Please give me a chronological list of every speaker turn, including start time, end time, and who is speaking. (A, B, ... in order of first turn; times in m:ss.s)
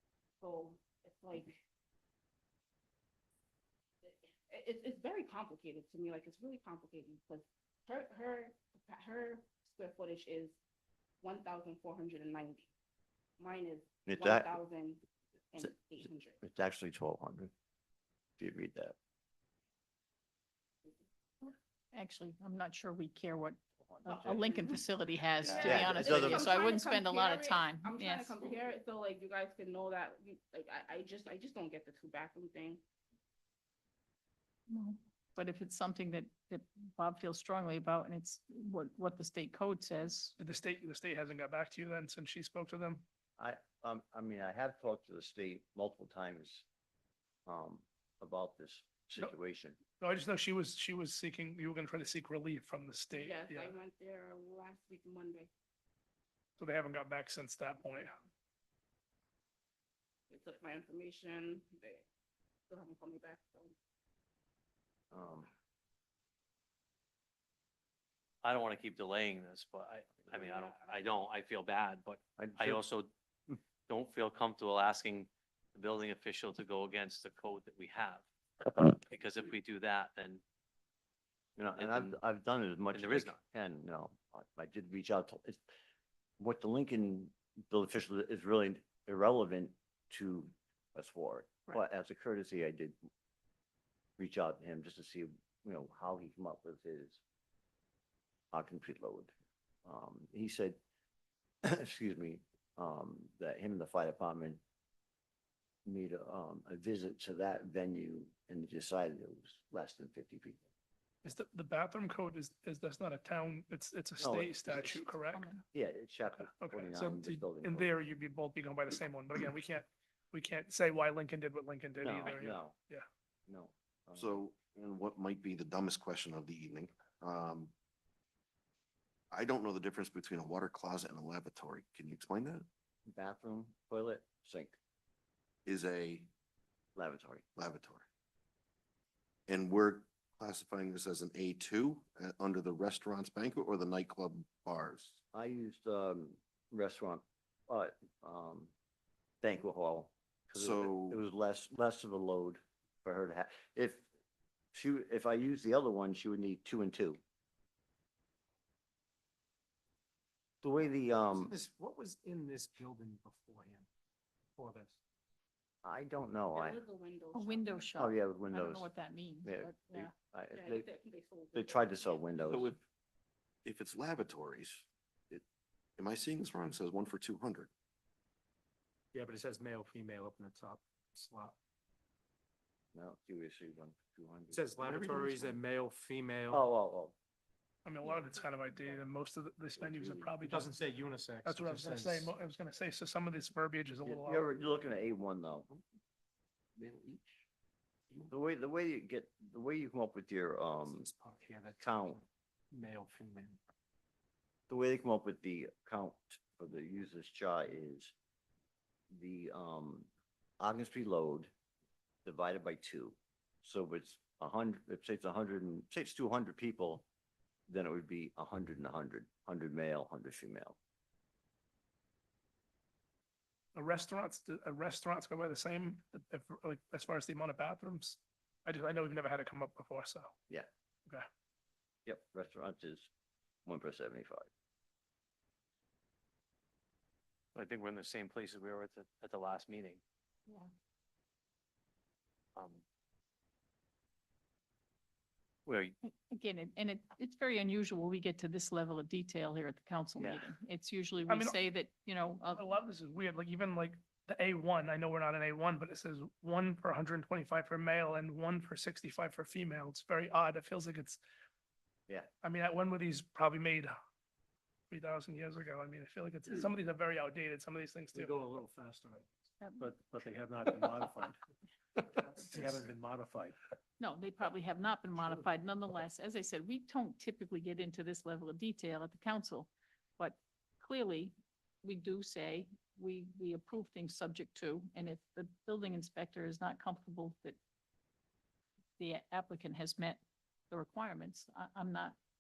0:00.4-0:01.6 A
0:04.0-0:10.6 A
0:11.2-0:12.7 A
0:13.4-0:16.4 A
0:14.1-0:14.6 B
0:16.4-0:17.5 B
0:18.4-0:19.0 B
0:21.4-0:28.4 C
0:23.9-0:24.4 B
0:24.3-0:24.7 A
0:25.4-0:32.8 A
0:25.5-0:26.5 B
0:34.7-0:40.4 C
0:40.4-0:43.0 D
0:43.4-0:46.7 B
0:47.5-0:49.8 B
0:50.0-0:53.8 D
0:53.2-0:55.5 A
0:56.6-0:58.2 D
1:00.3-1:02.1 A
1:02.7-1:03.8 A
1:05.1-1:05.5 B
1:08.4-1:13.1 E
1:10.3-1:11.0 A
1:12.4-1:12.8 B
1:13.9-1:20.4 E
1:21.6-1:25.6 B
1:21.8-1:22.2 E
1:22.9-1:23.4 E
1:26.4-1:33.0 B
1:34.2-1:37.2 B
1:38.5-1:39.3 B
1:39.8-1:40.8 B
1:41.6-1:44.6 B
1:45.9-1:50.6 B
1:51.2-1:55.6 D
1:54.2-1:55.0 B
1:55.3-1:55.6 C
1:55.7-1:57.9 B
1:56.4-2:03.0 D
2:02.0-2:02.8 B
2:03.5-2:04.4 B
2:04.2-2:07.7 F
2:09.3-2:12.7 F
2:13.1-2:14.8 B
2:15.7-2:16.3 F
2:17.0-2:17.5 B
2:17.6-2:18.1 F
2:19.5-2:25.2 F
2:25.3-2:28.7 B
2:29.4-2:34.1 B
2:30.5-2:31.2 F
2:34.7-2:37.2 B
2:40.6-2:41.5 B
2:41.3-2:43.9 G
2:44.6-2:45.0 G
2:45.8-2:46.8 B
2:46.5-2:47.9 A
2:47.3-2:50.1 C
2:48.0-2:48.9 B
2:49.4-2:50.9 B
2:50.5-2:52.5 A
2:51.5-2:52.8 B
2:52.5-2:52.8 E
2:53.6-2:55.4 F
2:56.0-2:57.7 F
2:59.1-3:01.6 G
3:02.9-3:04.7 B
3:04.5-3:06.6 G
3:04.8-3:05.6 F
3:06.5-3:07.2 B
3:07.8-3:10.7 D
3:10.4-3:12.3 G
3:11.4-3:14.5 D
3:14.0-3:15.7 B
3:16.8-3:17.4 G
3:18.3-3:21.1 B
3:20.8-3:23.6 G
3:21.8-3:22.2 B
3:24.7-3:28.1 B
3:29.1-3:30.1 B
3:30.6-3:31.5 B
3:32.2-3:37.0 B
3:37.7-3:40.8 B
3:43.8-3:50.3 D
3:52.1-3:53.1 B
3:53.7-3:54.5 B
3:57.6-4:00.0 E
4:02.6-4:02.8 E
4:05.7-4:06.0 E
4:06.0-4:12.7 C
4:11.3-4:11.6 D
4:12.6-4:21.2 D
4:22.4-4:23.9 D
4:24.9-4:28.4 D
4:28.2-4:29.3 G
4:29.8-4:31.4 G
4:32.2-4:33.6 G
4:34.0-4:41.3 C
4:41.8-4:47.6 C
4:49.0-4:52.2 C